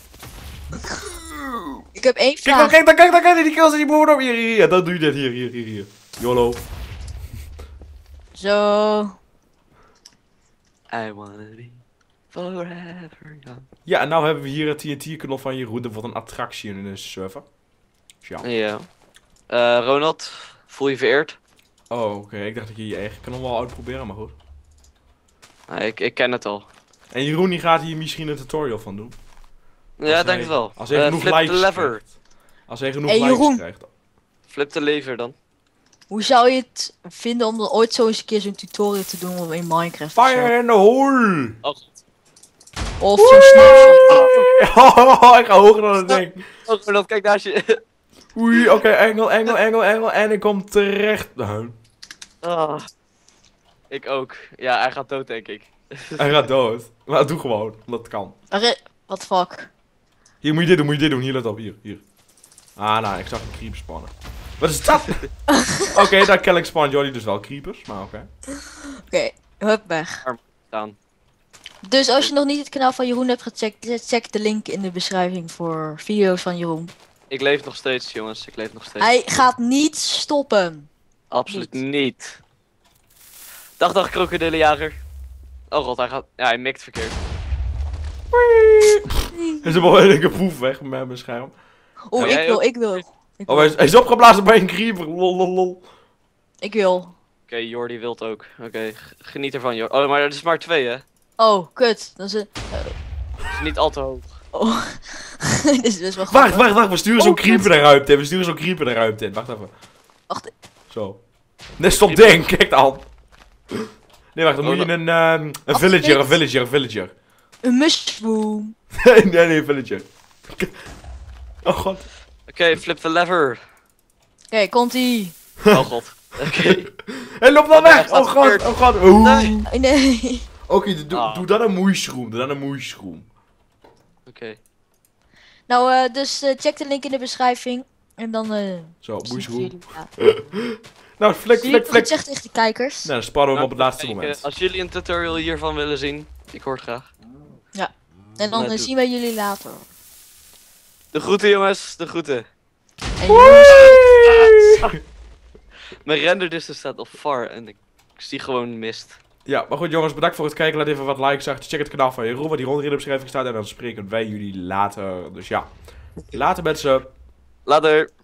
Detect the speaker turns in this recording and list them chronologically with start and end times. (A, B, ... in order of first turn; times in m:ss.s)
0:01.4-0:01.8 A
0:01.9-0:02.8 B
0:02.4-0:06.6 A
0:08.3-0:09.2 B
0:10.9-0:11.8 C
0:12.3-0:13.7 C
0:13.8-0:17.4 A
0:18.2-0:18.5 A
0:18.4-0:18.9 C
0:19.5-0:21.4 C
0:21.9-0:24.4 A
0:25.7-0:26.7 C
0:27.1-0:29.2 A
0:30.0-0:32.0 C
0:30.1-0:32.1 A
0:32.7-0:33.9 A
0:33.0-0:33.6 B
0:34.5-0:35.4 C
0:36.1-0:40.5 B
0:40.1-0:41.6 A
0:41.6-0:41.9 C
0:43.0-0:44.1 B
0:43.2-0:46.4 A
0:44.1-0:44.5 C
0:46.0-0:47.8 C
0:48.3-0:51.8 A
0:52.4-0:52.8 C
0:53.9-0:56.2 C
0:56.2-0:58.3 A
0:58.5-0:59.7 B
1:00.4-1:02.0 A
1:02.8-1:05.2 A
1:05.9-1:08.2 A
1:09.0-1:10.2 B
1:10.2-1:11.0 C
1:11.8-1:16.9 B
1:17.3-1:19.1 C
1:19.0-1:20.9 B
1:21.3-1:22.4 C
1:21.5-1:21.8 B
1:23.8-1:25.0 C
1:25.7-1:27.2 C
1:28.3-1:31.6 A
1:29.3-1:29.8 B
1:32.1-1:33.8 B
1:32.1-1:32.4 A
1:32.2-1:33.0 C
1:33.5-1:35.8 A
1:36.6-1:37.1 B
1:37.5-1:41.0 C
1:41.4-1:42.9 B
1:43.5-1:44.4 C
1:44.5-1:47.7 B
1:46.3-1:49.7 A
1:50.9-1:51.2 A
1:51.8-1:53.0 A
1:51.9-1:52.5 C
1:54.3-1:57.1 A
1:54.6-1:54.9 C
1:55.7-1:56.4 B
1:57.6-1:58.7 B
1:59.0-2:00.7 A
2:01.6-2:02.1 A
2:02.5-2:03.6 C
2:04.5-2:05.3 B
2:05.7-2:06.8 C
2:06.4-2:09.6 A
2:07.7-2:09.6 C
2:09.6-2:10.4 B
2:10.7-2:13.3 A
2:11.1-2:11.4 C
2:14.3-2:14.6 C
2:15.7-2:20.1 B
2:19.0-2:22.2 A
2:21.6-2:23.1 B
2:23.0-2:24.4 A
2:23.5-2:27.1 C
2:27.7-2:29.9 B
2:28.5-2:28.9 C
2:31.1-2:32.5 C
2:33.2-2:34.0 B
2:33.3-2:34.8 A
2:36.0-2:39.2 C
2:39.4-2:45.7 A
2:46.3-2:47.1 A
2:47.6-2:48.1 C